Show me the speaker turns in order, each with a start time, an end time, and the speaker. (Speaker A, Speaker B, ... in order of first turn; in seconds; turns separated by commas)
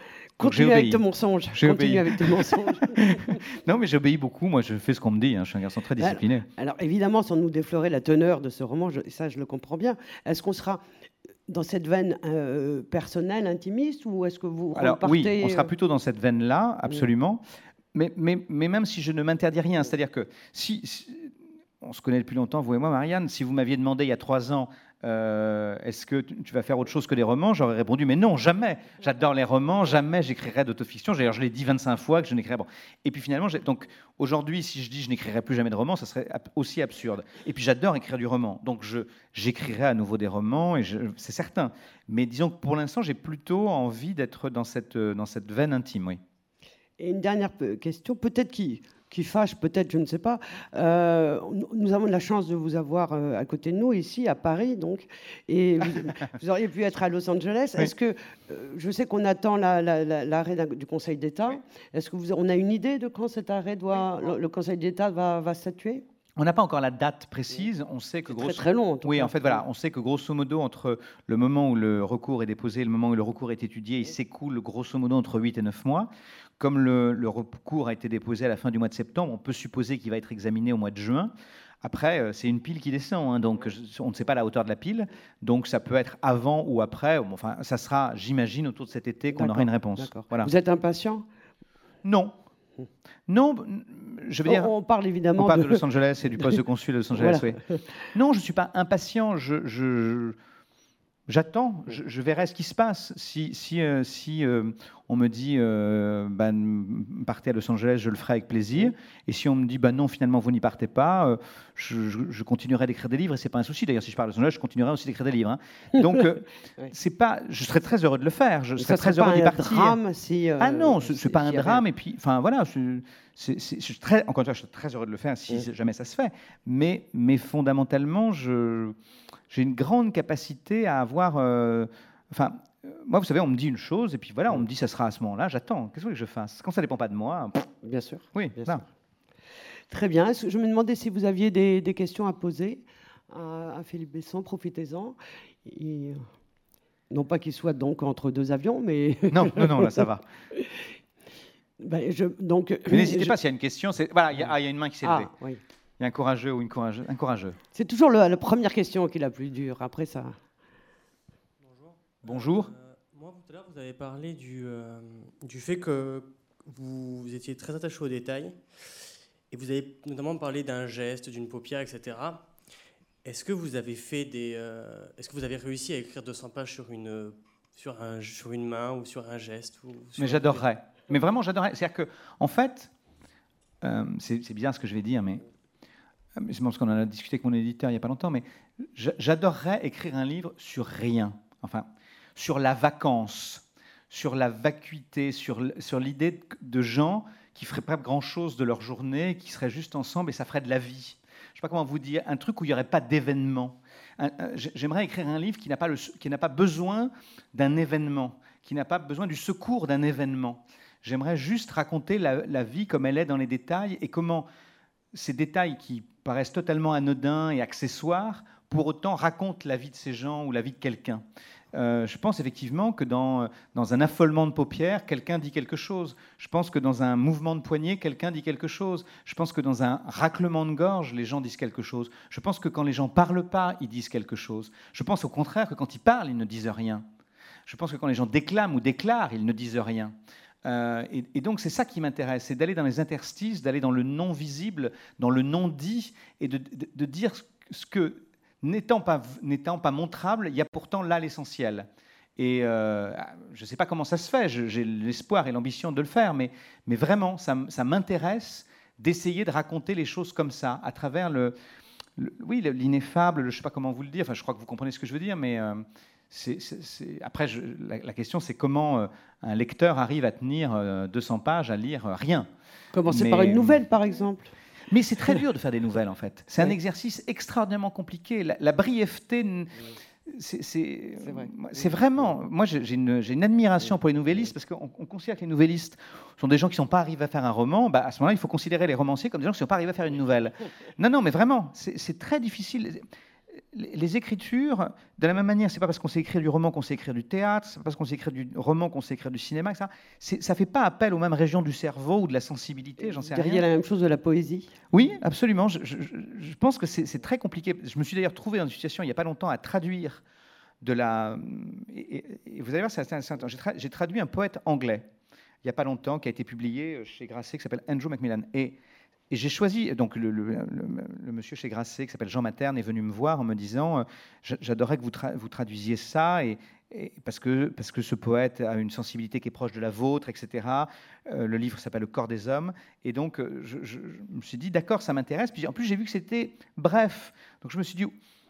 Speaker A: 0.4-3.4, Speaker B: 0.4-6.5, Speaker A: 6.0-10.8, Speaker A: 11.5-15.7, Speaker B: 14.8-17.4, Speaker B: 17.9-46.2, Speaker A: 47.0-66.0, Speaker B: 66.4-90.5, Speaker A: 68.3-69.6, Speaker A: 89.3-91.2, Speaker B: 92.0-92.3, Speaker B: 93.3-94.7, Speaker A: 94.5-95.8, Speaker B: 95.4-97.6, Speaker A: 97.1-97.8, Speaker B: 98.1-100.4, Speaker B: 101.3-120.0, Speaker A: 118.8-121.8, Speaker B: 120.6-129.0, Speaker B: 129.5-137.7, Speaker A: 137.8-138.8, Speaker B: 138.3-138.8, Speaker A: 139.9-146.2, Speaker A: 147.1-150.8, Speaker B: 149.3-150.3, Speaker A: 151.8-153.3, Speaker B: 152.9-155.3, Speaker A: 155.0-155.6, Speaker B: 156.0-157.6, Speaker A: 157.7-160.4, Speaker C: 161.6-168.6, Speaker B: 162.2-162.7, Speaker C: 169.5-172.5, Speaker C: 173.2-180.6, Speaker B: 180.2-182.9, Speaker B: 183.8-185.4, Speaker B: 186.4-214.5, Speaker B: 215.1-237.1, Speaker B: 237.7-261.5, Speaker B: 262.2-272.5, Speaker A: 272.9-274.5, Speaker B: 273.1-273.9, Speaker B: 274.9-293.1, Speaker A: 281.2-281.5, Speaker B: 293.6-303.6, Speaker A: 303.1-304.8, Speaker B: 304.9-310.2, Speaker B: 310.8-315.1, Speaker B: 315.6-318.8, Speaker B: 319.3-338.1